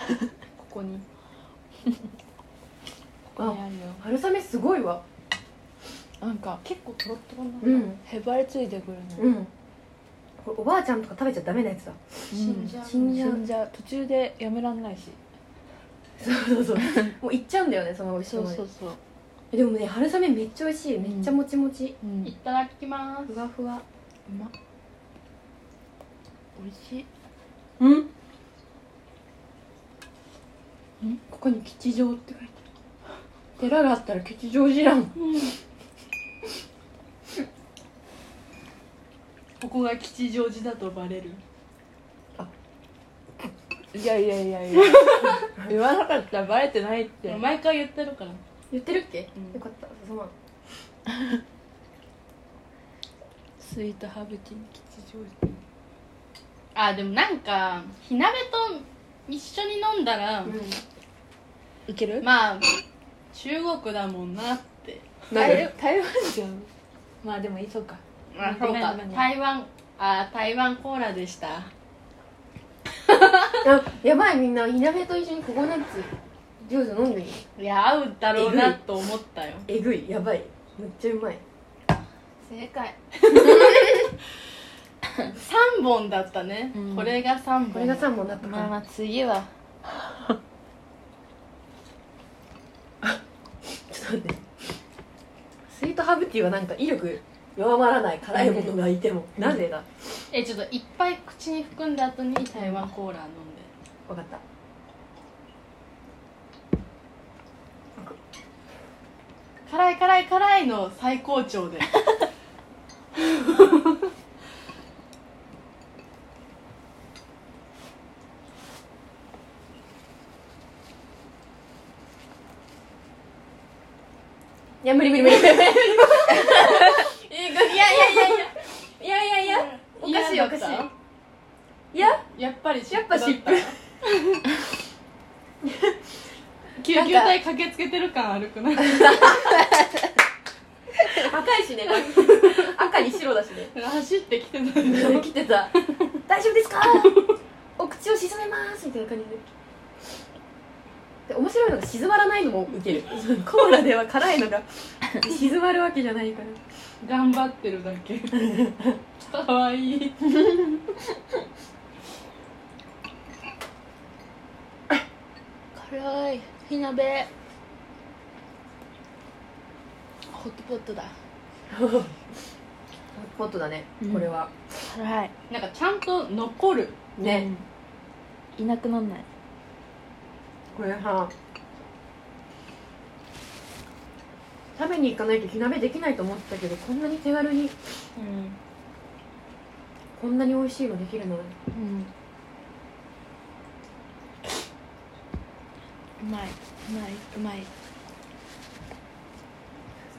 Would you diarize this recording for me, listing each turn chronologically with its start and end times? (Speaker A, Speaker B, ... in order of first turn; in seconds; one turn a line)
Speaker A: 0.6-1.0
Speaker B: 3.3-4.0
Speaker C: 3.4-5.0
Speaker B: 6.2-6.6
Speaker A: 6.6-7.9
Speaker C: 7.6-8.0
Speaker B: 8.1-9.3
Speaker C: 9.2-9.5
Speaker C: 10.4-13.4
Speaker B: 12.3-15.2
Speaker A: 12.3-13.3
Speaker C: 16.2-18.6
Speaker B: 16.8-17.1
Speaker B: 18.2-19.0
Speaker C: 19.5-22.0
Speaker B: 22.0-22.3
Speaker A: 22.2-23.3
Speaker C: 23.3-23.8
Speaker B: 26.6-27.1
Speaker C: 27.8-28.1
Speaker C: 31.3-32.6
Speaker C: 33.6-35.2
Speaker A: 35.2-35.5
Speaker A: 39.6-41.4
Speaker B: 43.9-47.4
Speaker A: 44.8-45.4
Speaker A: 47.2-48.4
Speaker C: 48.7-50.3
Speaker B: 51.1-51.4
Speaker B: 53.6-55.6
Speaker A: 56.8-60.6
Speaker C: 60.4-60.8
Speaker B: 61.9-62.3
Speaker A: 62.2-62.8
Speaker A: 63.3-65.6
Speaker C: 65.3-65.7
Speaker B: 65.3-66.7
Speaker B: 67.2-69.3
Speaker A: 68.3-71.7
Speaker A: 73.1-73.4
Speaker C: 73.6-77.4
Speaker A: 77.6-79.7
Speaker C: 78.3-78.8
Speaker C: 79.7-81.4
Speaker B: 82.4-83.8
Speaker A: 85.3-88.1
Speaker B: 86.8-87.2
Speaker C: 87.7-88.7
Speaker B: 88.4-89.5
Speaker C: 93.0-94.4
Speaker C: 95.7-99.9
Speaker B: 98.3-98.7
Speaker A: 100.3-103.7
Speaker C: 104.1-104.4
Speaker A: 109.7-112.0
Speaker A: 113.4-113.8
Speaker C: 124.8-130.9
Speaker A: 125.2-128.5
Speaker A: 129.9-130.9
Speaker C: 131.9-132.2
Speaker A: 132.0-133.8
Speaker C: 132.9-133.7
Speaker C: 135.6-135.9
Speaker C: 136.8-137.4
Speaker A: 136.8-139.6
Speaker C: 138.8-139.6
Speaker C: 141.1-143.7
Speaker A: 142.0-142.8
Speaker A: 143.7-145.3
Speaker C: 144.8-145.7
Speaker C: 146.2-147.2
Speaker A: 146.8-147.4
Speaker C: 147.8-149.4
Speaker C: 151.3-156.6
Speaker A: 157.0-158.6
Speaker C: 158.4-158.9
Speaker A: 159.2-160.3
Speaker B: 165.7-167.3
Speaker B: 170.3-171.1
Speaker C: 171.7-172.1
Speaker C: 173.1-174.5
Speaker B: 174.8-175.3
Speaker A: 175.5-177.1
Speaker C: 177.2-177.5
Speaker B: 177.2-177.6
Speaker B: 178.6-179.2
Speaker C: 180.7-181.3
Speaker C: 184.8-187.8
Speaker A: 188.2-188.6
Speaker C: 190.2-191.6
Speaker B: 191.7-192.1
Speaker B: 196.2-197.7